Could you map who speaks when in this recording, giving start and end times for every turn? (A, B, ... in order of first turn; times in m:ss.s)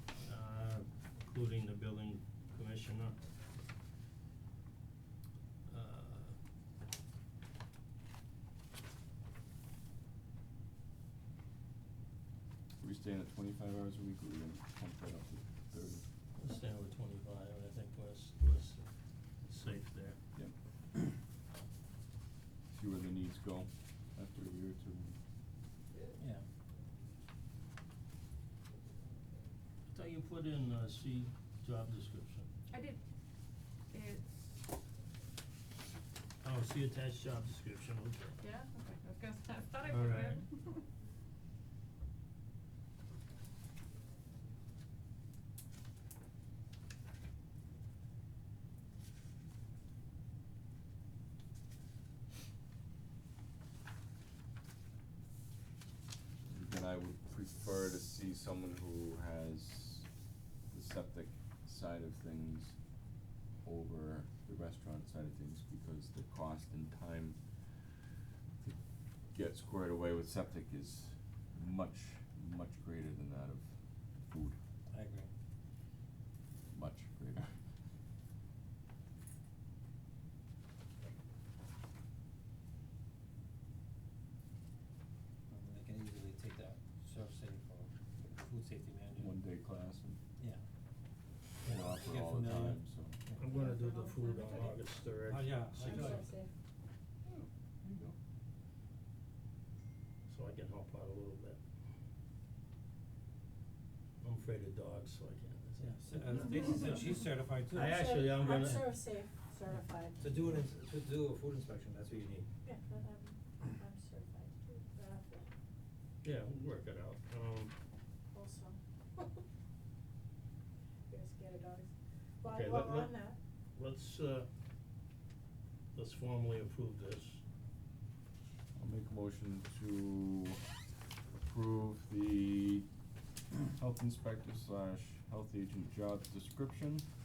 0:00.2-0:03.2 A
0:05.7-0:06.4 A
0:12.8-0:16.1 B
0:16.4-0:20.2 A
0:22.7-0:25.2 B
0:26.2-0:26.4 C
0:29.9-0:32.5 A
0:32.7-0:33.0 D
0:33.9-0:34.6 D
0:36.4-0:38.4 A
0:38.4-0:40.8 D
0:39.8-0:40.4 A
0:56.4-1:00.1 B
1:00.7-1:02.8 B
1:03.6-1:07.4 B
1:09.3-1:13.7 B
1:14.2-1:14.6 B
1:14.9-1:15.3 C
1:16.7-1:17.5 B
1:25.5-1:29.4 C
1:29.1-1:30.2 B
1:31.6-1:33.1 B
1:31.6-1:33.5 C
1:33.4-1:36.3 A
1:33.7-1:34.7 E
1:35.2-1:36.3 C
1:35.8-1:36.5 E
1:37.2-1:38.2 B
1:40.3-1:41.6 A
1:44.2-1:46.9 A
1:45.8-1:49.0 C
1:47.7-1:48.9 A
1:47.8-1:50.3 E
1:50.2-1:52.5 C
1:52.6-1:55.5 E
1:56.2-1:57.7 A
1:58.3-1:59.2 E
2:01.1-2:01.9 E
2:02.4-2:03.4 E
2:02.4-2:04.5 A
2:05.9-2:07.4 A
2:08.8-2:10.6 B
2:11.4-2:12.9 B
2:13.8-2:17.0 B